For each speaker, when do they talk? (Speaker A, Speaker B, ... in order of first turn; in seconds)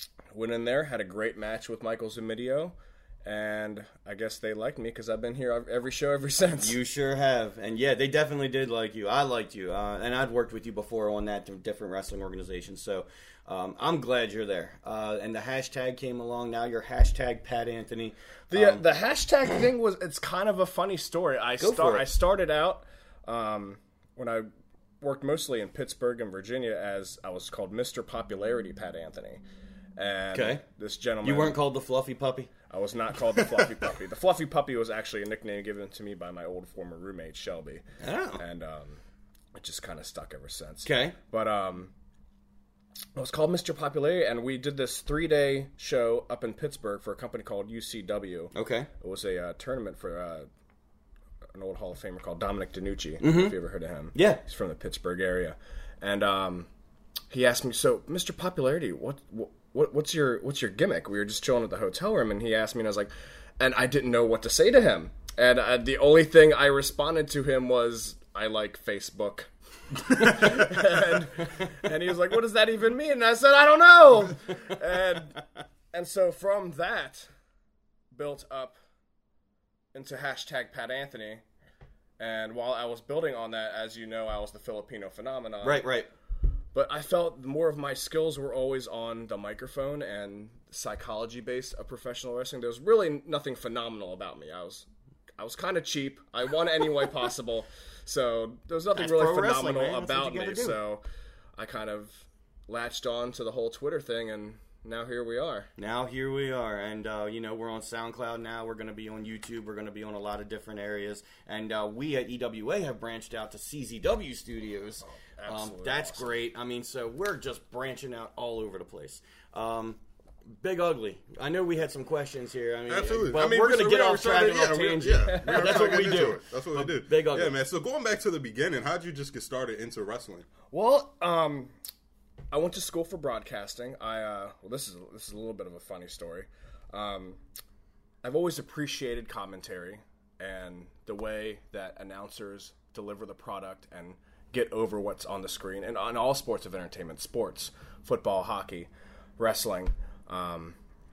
Speaker A: 0.3-6.8, 18.5-24.5, 25.0-29.4, 30.0-31.6, 32.7-37.8, 38.4-39.0, 39.5-41.9, 43.1-50.5, 51.5-56.7, 57.3-77.3, 78.1-78.8, 79.9-81.4, 82.2-85.8, 86.7-94.8, 95.4-101.0, 101.5-105.7, 115.0-116.3, 125.3-126.2, 130.7-131.7, 132.5-137.4, 138.2-150.8
Speaker B: 6.6-18.8, 21.6-22.1, 30.3-30.6, 31.2-32.5, 33.4-33.6, 38.0-38.4, 40.8-41.1, 48.5-48.9, 53.2-53.5, 54.1-54.4, 70.2-70.5, 85.6-86.1, 98.9-100.8, 105.8-127.5
Speaker C: 122.9-130.5